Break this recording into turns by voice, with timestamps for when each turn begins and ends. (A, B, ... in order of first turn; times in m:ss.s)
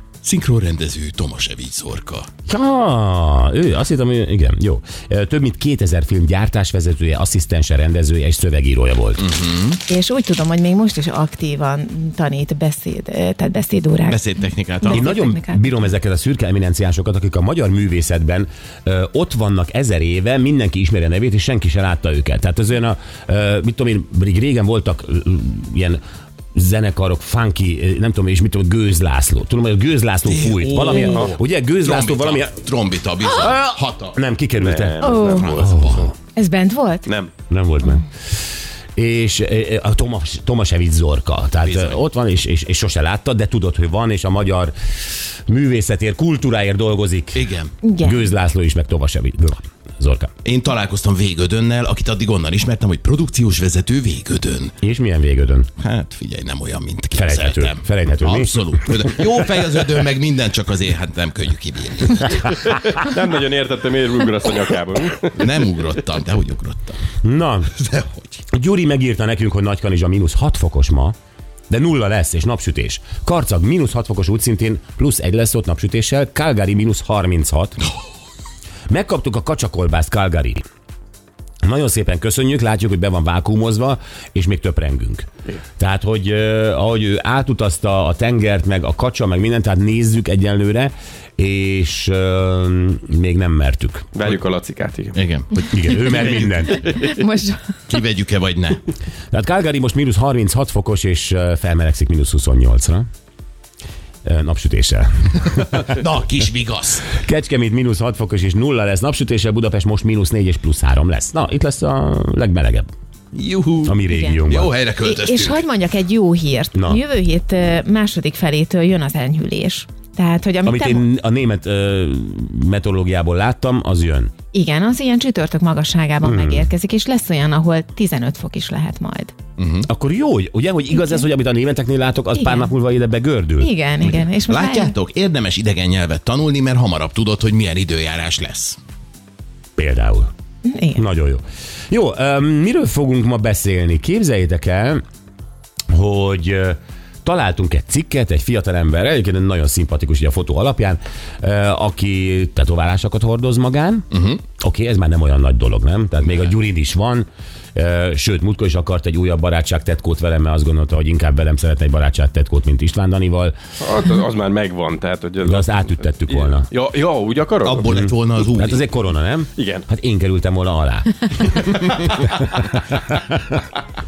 0:00.2-0:02.3 A
0:02.5-0:09.3 B
0:09.2-0:09.8 A
0:09.9-0:14.2 C
0:14.0-0:15.1 A
0:14.8-0:15.7 C
0:14.9-0:26.0 B
0:26.5-0:32.6 B
0:30.3-0:34.2 A
0:31.0-0:31.4 D
0:33.2-0:36.1 B
0:34.6-0:36.1 D
0:35.0-0:35.5 C
0:35.2-0:36.1 A
0:36.3-0:37.1 C
0:37.0-0:37.3 D
0:37.5-0:38.0 B
0:39.0-0:50.3 B
0:41.6-0:42.0 A
0:47.3-0:47.7 A
0:47.8-0:48.2 C
0:50.4-0:54.7 A
0:54.8-0:55.7 B
0:55.8-1:02.6 A
0:57.1-0:59.4 B
1:02.6-1:05.4 D
1:05.3-1:07.0 A
1:07.2-1:07.7 B
1:07.8-1:08.4 A
1:08.5-1:11.1 B
1:11.7-1:17.8 B
1:18.9-1:20.6 B
1:21.6-1:34.1 B
1:34.1-1:35.2 D
1:35.1-1:36.5 A
1:35.5-1:37.0 B
1:36.7-1:37.7 C
1:37.9-1:38.8 A
1:39.3-1:43.1 B
1:44.2-1:46.0 B
1:45.8-1:47.1 A
1:47.1-1:52.9 B
1:53.3-1:55.6 A
1:53.8-1:54.7 B
1:54.1-1:54.4 C
1:55.0-2:01.1 C
1:56.7-1:57.0 B
2:00.6-2:04.3 B
2:04.5-2:09.3 C
2:06.2-2:06.7 B
2:09.6-2:09.9 A
2:09.8-2:13.7 B
2:12.4-2:12.7 C
2:13.6-2:14.9 C
2:14.1-2:18.8 A
2:19.8-2:20.3 B
2:20.6-2:21.0 C
2:20.9-2:25.0 B
2:25.9-2:43.5 B
2:34.1-2:34.4 A
2:43.8-2:48.0 D
2:45.4-2:46.7 B
2:47.6-2:48.8 A
2:47.9-2:53.6 B
2:49.6-2:49.8 D